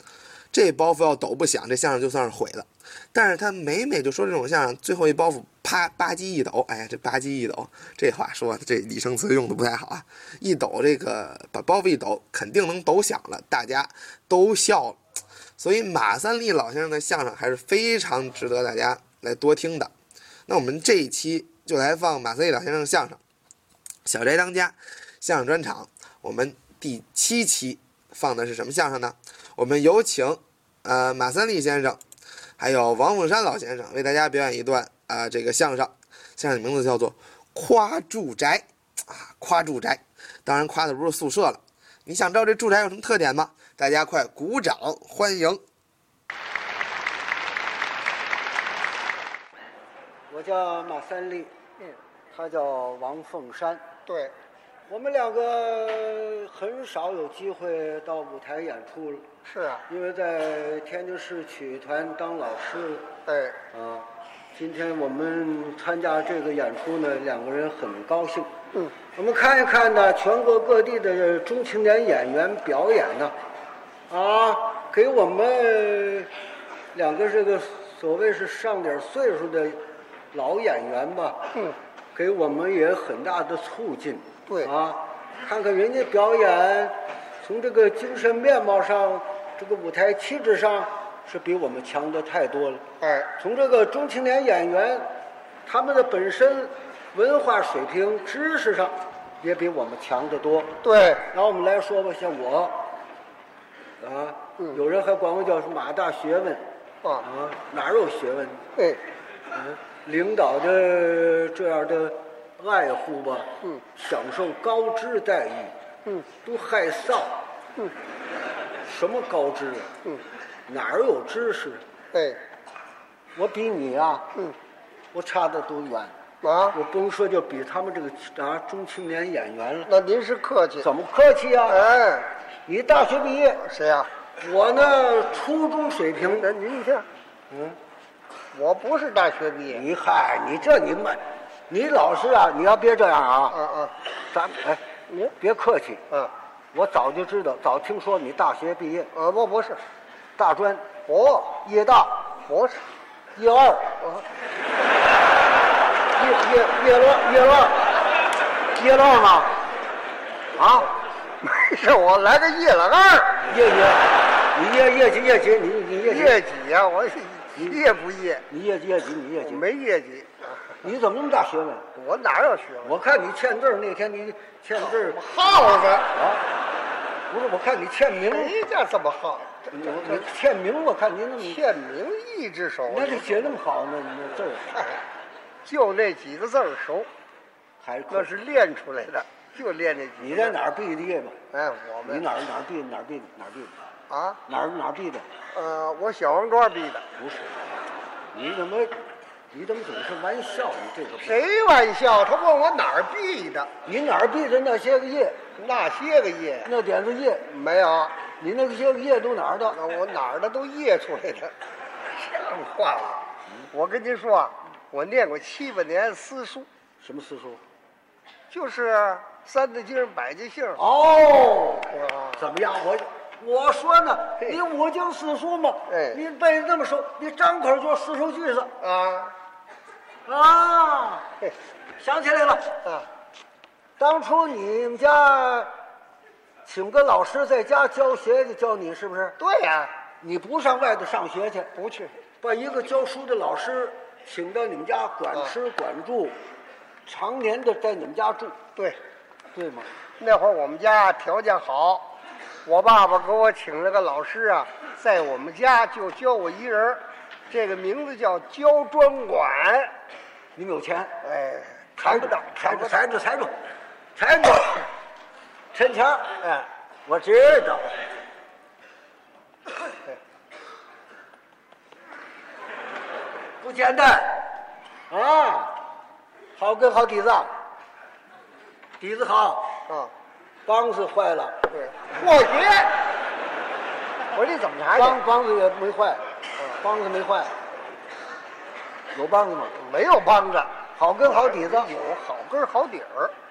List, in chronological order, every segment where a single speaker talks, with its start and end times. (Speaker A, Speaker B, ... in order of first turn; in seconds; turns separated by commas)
Speaker A: 0.5-15.0, Speaker A: 15.6-19.9, Speaker A: 20.5-23.2, Speaker A: 24.0-32.0, Speaker A: 32.6-45.6, Speaker B: 50.3-51.5, Speaker B: 52.3-53.8, Speaker C: 54.1-54.3, Speaker B: 54.9-59.3, Speaker C: 59.5-59.8, Speaker B: 59.9-63.1, Speaker C: 63.3-63.6, Speaker B: 63.7-68.5, Speaker B: 69.2-73.3, Speaker B: 74.1-76.3, Speaker B: 76.9-81.5, Speaker B: 82.1-92.8, Speaker C: 93.0-93.3, Speaker B: 93.4-95.1, Speaker B: 95.7-100.8, Speaker C: 100.8-101.2, Speaker B: 101.3-102.8, Speaker B: 104.0-106.6, Speaker B: 107.2-108.6, Speaker B: 109.5-115.7, Speaker B: 116.4-117.4, Speaker B: 118.9-119.9, Speaker B: 120.7-121.8, Speaker C: 122.1-122.4, Speaker B: 123.3-124.3, Speaker B: 125.1-126.1, Speaker C: 126.4-126.8, Speaker B: 126.7-129.9, Speaker C: 129.9-130.9, Speaker B: 130.8-131.9, Speaker C: 131.7-132.3, Speaker B: 132.7-133.6, Speaker C: 133.6-134.1, Speaker B: 134.4-136.5, Speaker C: 136.4-137.1, Speaker B: 137.5-137.8, Speaker C: 138.5-139.8, Speaker B: 139.7-143.6, Speaker C: 143.5-143.9, Speaker B: 144.3-144.8, Speaker B: 145.4-146.0, Speaker B: 146.7-149.1, Speaker C: 149.1-149.8, Speaker B: 150.4-150.9, Speaker C: 151.1-151.6, Speaker B: 151.6-152.3, Speaker C: 152.4-152.8, Speaker B: 153.3-154.0, Speaker B: 156.2-157.9, Speaker B: 158.7-159.5, Speaker B: 160.6-160.9, Speaker C: 161.4-163.4, Speaker B: 163.5-166.4, Speaker C: 166.0-168.4, Speaker B: 168.5-169.6, Speaker C: 169.4-170.7, Speaker B: 170.8-171.9, Speaker C: 171.9-172.9, Speaker B: 172.8-175.2, Speaker C: 175.0-176.1, Speaker B: 176.1-176.4, Speaker B: 177.3-178.5, Speaker C: 178.3-180.2, Speaker B: 179.7-181.6, Speaker C: 181.4-183.5, Speaker B: 182.9-184.7, Speaker C: 184.7-185.0, Speaker C: 185.6-187.1, Speaker B: 187.8-188.3, Speaker C: 188.1-190.5, Speaker B: 190.2-191.4, Speaker C: 191.5-192.2, Speaker B: 192.0-193.8, Speaker C: 194.1-194.4, Speaker B: 194.5-195.3, Speaker C: 195.5-197.1, Speaker B: 197.2-197.5, Speaker B: 198.3-198.9, Speaker B: 199.5-201.4, Speaker C: 201.2-203.7, Speaker B: 203.8-205.4, Speaker C: 205.6-206.7, Speaker B: 206.7-207.5, Speaker C: 207.5-208.2, Speaker B: 208.4-209.8, Speaker C: 209.7-211.5, Speaker C: 212.1-216.7, Speaker B: 217.0-217.6, Speaker C: 218.5-220.8, Speaker B: 220.8-228.7, Speaker C: 221.9-222.4, Speaker C: 225.9-226.2, Speaker C: 228.8-229.3, Speaker B: 230.2-231.3, Speaker B: 232.0-232.7, Speaker B: 234.0-235.7, Speaker B: 236.7-239.4, Speaker C: 239.4-239.9, Speaker B: 240.2-241.7, Speaker C: 241.7-242.1, Speaker B: 242.4-246.3, Speaker B: 247.1-248.6, Speaker B: 249.5-249.9, Speaker C: 250.2-252.1, Speaker C: 252.6-259.9, Speaker B: 260.6-261.1, Speaker C: 261.2-262.9, Speaker B: 262.0-263.5, Speaker B: 264.1-264.9, Speaker B: 265.7-266.4, Speaker B: 267.1-267.9, Speaker B: 273.6-274.5, Speaker B: 275.1-275.8, Speaker B: 276.6-277.5, Speaker B: 279.0-279.7, Speaker B: 280.6-281.6, Speaker C: 281.7-283.0, Speaker C: 284.3-285.2, Speaker B: 284.9-286.2, Speaker B: 286.8-287.5, Speaker B: 289.1-289.7, Speaker C: 289.8-290.7, Speaker B: 291.0-291.9, Speaker C: 291.2-293.3